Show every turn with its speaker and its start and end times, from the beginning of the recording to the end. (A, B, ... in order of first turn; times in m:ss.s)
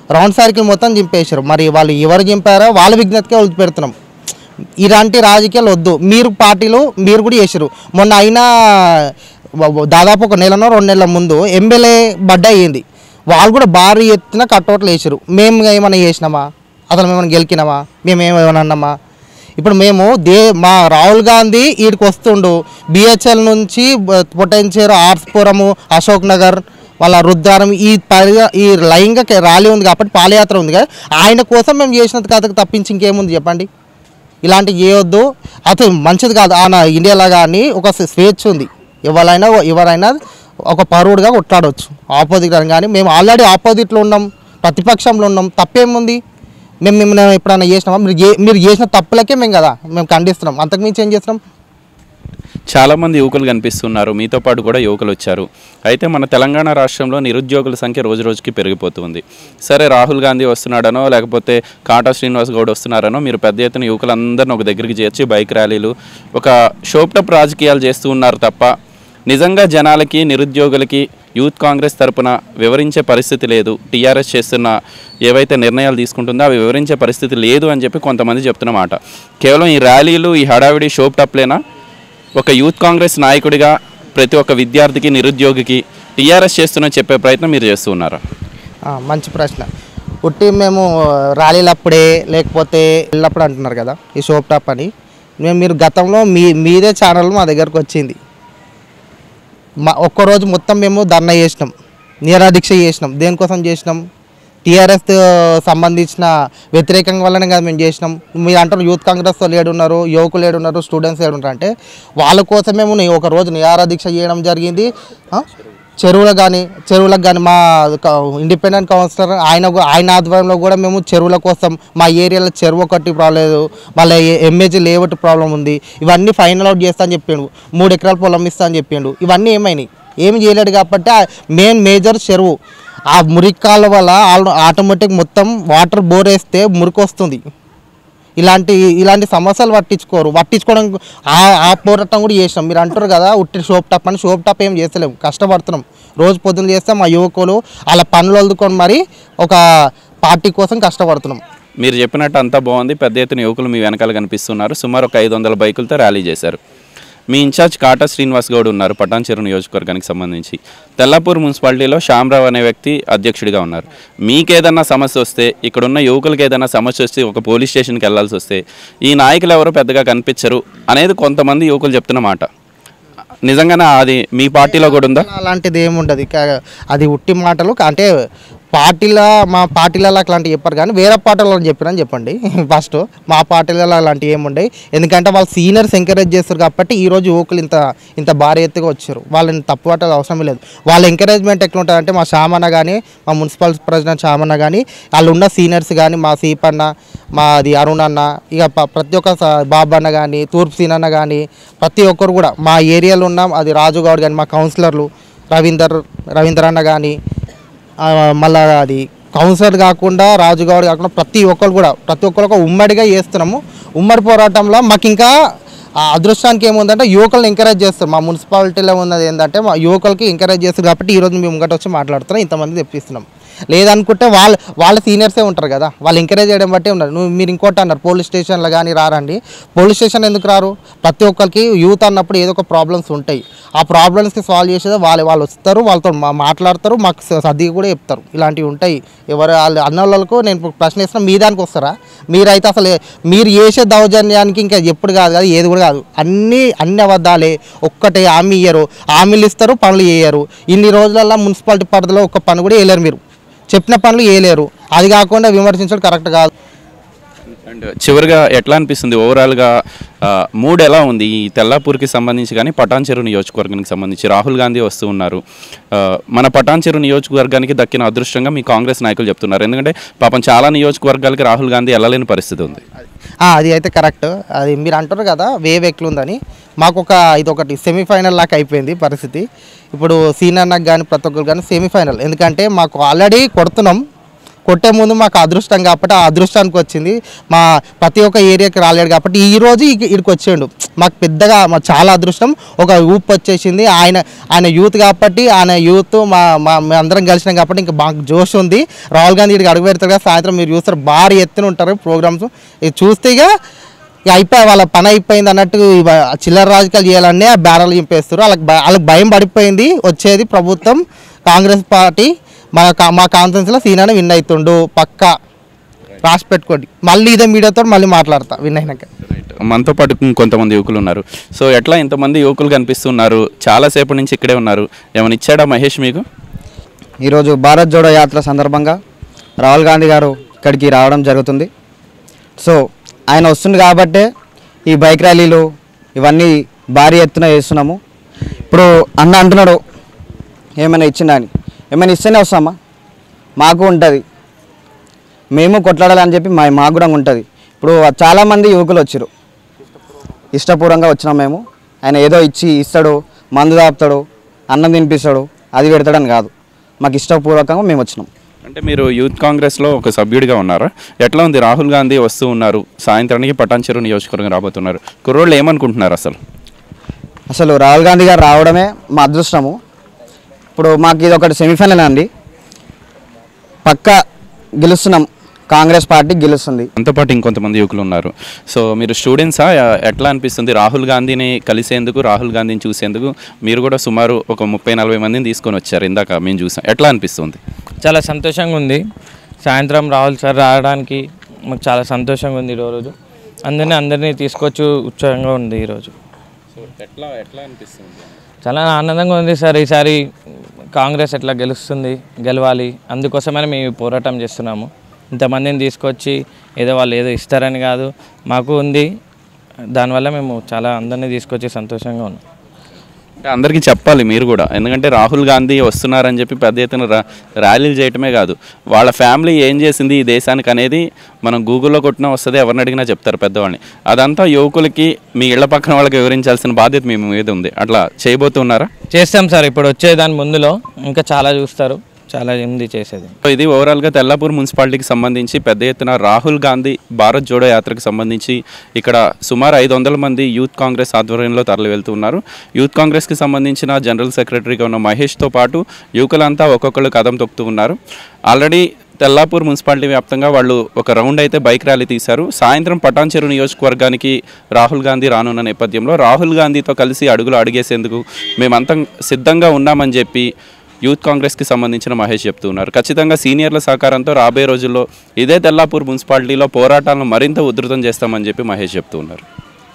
0:00.2-0:03.9 A
0:04.8-0:09.1 A
0:09.7-0:18.9 A
0:19.6-0:33.7 A
0:34.4-0:40.2 A
0:40.7-0:46.2 A
0:46.9-0:51.4 A
0:52.7-1:08.7 B
1:09.3-1:14.7 B
1:15.3-1:21.6 B
1:22.4-1:28.2 B
1:28.9-1:29.7 A
1:30.2-1:30.9 A
1:31.4-1:34.9 A
1:35.4-1:38.2 A
1:39.9-1:41.7 A
1:42.3-1:44.0 A
1:44.6-1:55.5 A
1:56.0-2:12.5 A
2:13.1-2:17.4 A
2:18.4-2:29.6 A
2:30.3-2:31.4 A
2:31.8-2:36.6 B
2:37.3-2:52.5 B
2:53.5-2:55.3 B
2:54.6-2:58.1 A
2:58.7-3:27.2 A
3:28.0-3:35.3 A
3:36.0-4:13.2 A
4:13.7-4:16.5 A
4:17.7-4:19.7 B
4:20.2-4:25.4 B
4:26.0-4:32.8 B
4:33.5-4:44.0 A
4:44.7-5:03.5 A
5:04.3-5:15.3 A
5:16.2-5:19.1 A
5:19.3-5:26.2 B
5:27.2-5:29.0 C
5:29.6-5:31.7 C
5:32.6-5:34.3 C
5:34.9-5:38.0 C
5:38.7-5:39.8 C
5:40.8-5:42.8 C
5:43.6-5:44.2 C
5:45.5-5:49.3 C
5:50.6-5:58.3 C
5:58.6-6:06.4 B
6:07.5-6:09.8 C
6:10.8-6:12.3 C
6:13.8-6:14.2 C
6:14.8-6:16.9 C
6:17.0-6:27.6 B
6:28.0-6:29.0 D
6:29.6-6:33.1 D
6:33.7-6:36.1 D
6:36.8-6:38.4 B
6:38.6-6:40.2 D
6:41.0-6:49.1 D
6:50.0-6:52.4 D
6:53.4-7:08.9 B
7:09.1-7:13.3 D
7:13.4-7:28.0 B
7:28.5-7:40.5 B
7:41.0-7:49.4 B